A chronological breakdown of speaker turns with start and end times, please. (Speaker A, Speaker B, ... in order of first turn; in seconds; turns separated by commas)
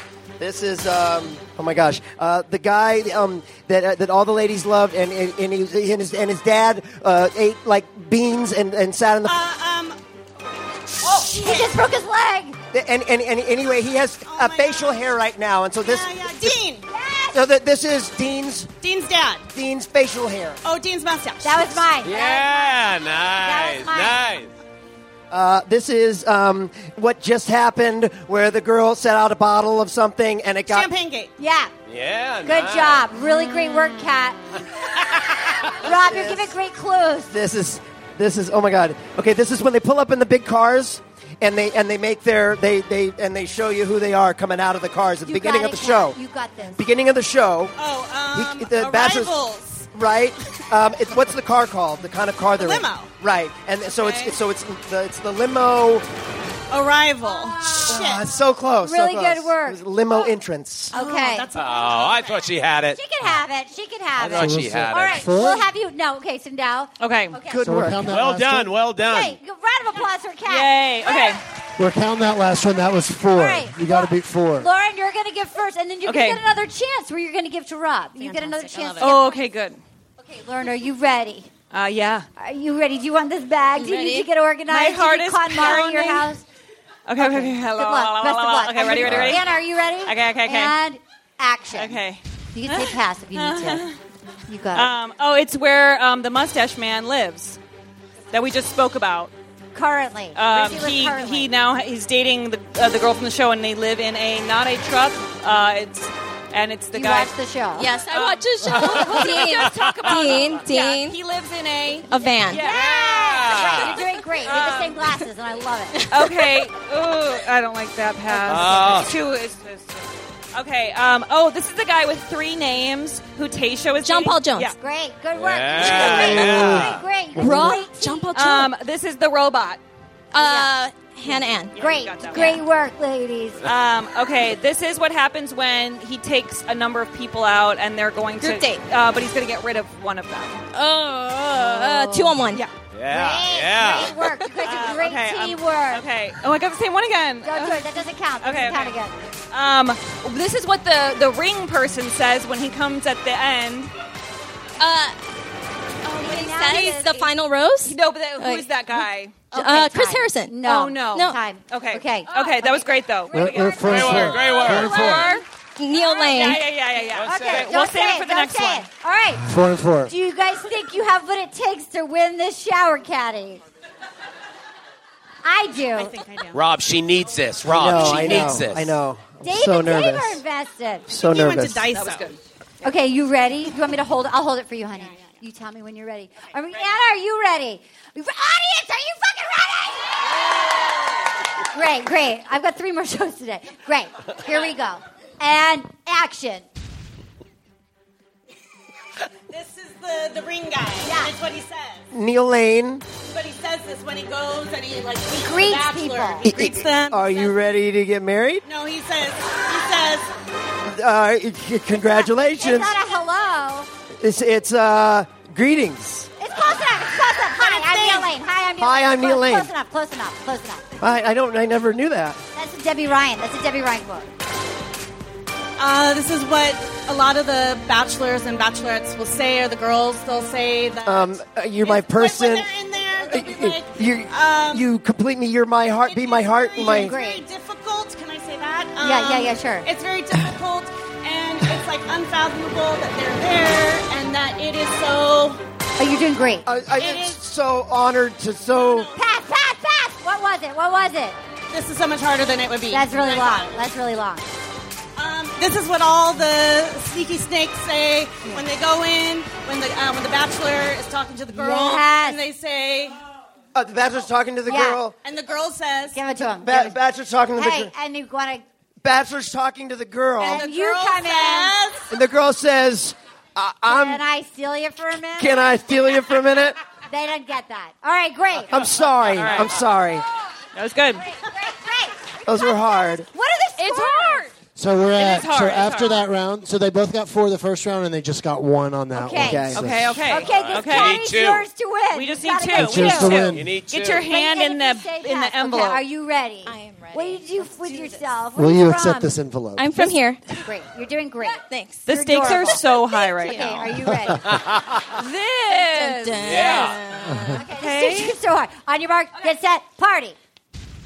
Speaker A: 0.4-9.4, Speaker B: 9.2-10.0, Speaker B: 11.0-11.8, Speaker C: 11.1-12.6, Speaker A: 12.7-16.6, Speaker B: 14.3-15.2, Speaker B: 15.8-16.9, Speaker C: 16.9-17.5, Speaker A: 17.3-18.7, Speaker B: 18.8-19.5, Speaker A: 19.5-20.6, Speaker B: 20.6-21.9, Speaker C: 21.4-24.2, Speaker D: 22.0-24.5, Speaker A: 25.3-30.9, Speaker B: 30.7-31.3, Speaker C: 31.4-31.7, Speaker D: 31.9-33.0, Speaker C: 32.4-34.4, Speaker C: 35.8-37.3, Speaker A: 35.8-36.6, Speaker A: 37.3-46.2, Speaker C: 45.2-46.8, Speaker A: 46.8-47.8, Speaker B: 47.8-49.9, Speaker A: 48.3-56.0, Speaker B: 52.6-53.1, Speaker B: 54.0-54.4, Speaker B: 56.7-58.3, Speaker C: 57.2-58.1, Speaker A: 57.9-60.9, Speaker C: 58.8-59.8, Speaker C: 60.9-61.5, Speaker B: 60.9-62.5, Speaker D: 61.5-63.0, Speaker C: 62.9-67.6, Speaker D: 64.2-65.2, Speaker E: 64.4-65.7, Speaker F: 67.0-67.4, Speaker A: 67.5-68.1, Speaker E: 67.6-68.8, Speaker D: 68.0-69.4, Speaker C: 69.0-71.4, Speaker F: 70.5-71.4, Speaker E: 71.8-74.7, Speaker C: 73.3-79.4, Speaker F: 76.1-76.4, Speaker G: 78.2-79.1, Speaker F: 79.0-79.8, Speaker C: 80.2-81.5, Speaker F: 81.7-82.3, Speaker C: 82.4-86.4, Speaker G: 83.8-84.3, Speaker F: 84.7-86.3, Speaker F: 87.1-89.5, Speaker C: 87.2-92.0, Speaker F: 90.0-90.8, Speaker F: 91.7-94.0, Speaker C: 92.5-93.9, Speaker C: 94.5-94.9, Speaker F: 94.7-97.6, Speaker F: 98.3-99.3, Speaker C: 99.7-101.5, Speaker F: 100.3-107.3, Speaker C: 106.9-107.9, Speaker G: 107.8-111.2, Speaker F: 108.1-115.0, Speaker C: 109.1-110.3, Speaker G: 112.1-112.7, Speaker C: 112.6-116.0, Speaker D: 112.7-114.0, Speaker G: 114.3-114.9, Speaker G: 115.9-116.7, Speaker F: 116.1-124.8, Speaker D: 118.3-119.2, Speaker G: 124.0-124.8, Speaker C: 124.8-128.3, Speaker D: 125.3-127.0, Speaker F: 125.8-126.2, Speaker G: 127.4-128.7, Speaker A: 127.4-127.7, Speaker F: 128.3-129.8, Speaker G: 130.3-132.6, Speaker C: 130.4-130.7, Speaker F: 131.3-132.6, Speaker C: 131.8-133.6, Speaker F: 133.7-140.6, Speaker G: 138.4-138.8, Speaker G: 140.7-142.6, Speaker F: 141.6-142.7, Speaker D: 142.9-144.5, Speaker C: 143.1-146.0, Speaker F: 144.6-149.0, Speaker C: 147.4-149.2, Speaker F: 149.5-153.9, Speaker G: 154.8-155.2, Speaker G: 156.0-161.4, Speaker C: 156.2-157.2, Speaker F: 157.8-159.4, Speaker C: 159.5-163.0, Speaker F: 160.6-168.9, Speaker E: 163.3-165.3, Speaker D: 163.8-165.4, Speaker G: 165.8-166.7, Speaker D: 167.0-167.7, Speaker C: 167.3-169.5, Speaker E: 169.4-170.1, Speaker C: 170.1-173.6, Speaker C: 175.4-176.2, Speaker B: 175.9-176.6, Speaker D: 176.5-179.0, Speaker A: 177.6-180.4, Speaker C: 177.9-178.6, Speaker C: 179.4-181.1, Speaker A: 181.1-182.1, Speaker B: 181.1-182.4, Speaker F: 181.8-182.4, Speaker C: 182.8-190.3, Speaker C: 191.6-196.6, Speaker B: 199.5-202.1, Speaker C: 201.0-201.3, Speaker A: 202.1-203.0, Speaker B: 203.3-207.6, Speaker C: 205.3-206.5, Speaker A: 206.4-208.7, Speaker B: 208.7-210.3, Speaker A: 210.9-212.9, Speaker C: 211.9-213.9, Speaker A: 214.2-216.3, Speaker C: 216.4-221.0, Speaker B: 217.1-218.3, Speaker A: 218.8-219.7, Speaker A: 221.0-222.4, Speaker C: 222.6-224.3, Speaker B: 225.8-234.9, Speaker A: 231.0-237.1, Speaker B: 236.0-245.6, Speaker C: 236.8-237.4, Speaker C: 239.0-239.9, Speaker C: 246.0-246.7, Speaker A: 246.7-249.1, Speaker B: 246.9-247.4, Speaker B: 248.7-249.2, Speaker C: 249.1-251.4, Speaker B: 251.7-253.9, Speaker C: 252.9-254.5, Speaker B: 255.2-263.2, Speaker C: 261.5-262.4, Speaker A: 263.8-265.1, Speaker C: 264.7-265.0, Speaker B: 265.2-266.4, Speaker C: 266.1-267.0, Speaker A: 266.6-267.9, Speaker C: 267.6-268.6, Speaker A: 269.0-270.7, Speaker B: 270.4-272.1, Speaker C: 270.4-271.9, Speaker A: 272.1-274.2, Speaker C: 273.9-275.7, Speaker A: 275.4-276.8, Speaker C: 277.1-278.9, Speaker A: 278.7-280.3, Speaker F: 279.2-279.8, Speaker F: 280.7-281.3, Speaker C: 281.2-284.5, Speaker A: 282.4-283.3, Speaker F: 283.8-284.5, Speaker E: 284.8-290.2, Speaker F: 285.2-286.2, Speaker C: 289.1-293.4, Speaker A: 289.4-289.9, Speaker F: 289.8-291.2, Speaker D: 290.2-291.7, Speaker F: 292.1-296.0, Speaker E: 292.7-293.7, Speaker D: 293.4-294.3, Speaker C: 294.3-299.3, Speaker G: 296.6-298.2, Speaker E: 298.6-299.9, Speaker G: 299.8-300.4, Speaker C: 300.6-304.6, Speaker G: 301.5-304.0, Speaker F: 302.1-303.9, Speaker D: 304.4-305.0, Speaker F: 305.1-307.0, Speaker G: 305.6-307.6, Speaker D: 306.4-307.0, Speaker C: 307.5-310.4, Speaker F: 307.6-308.4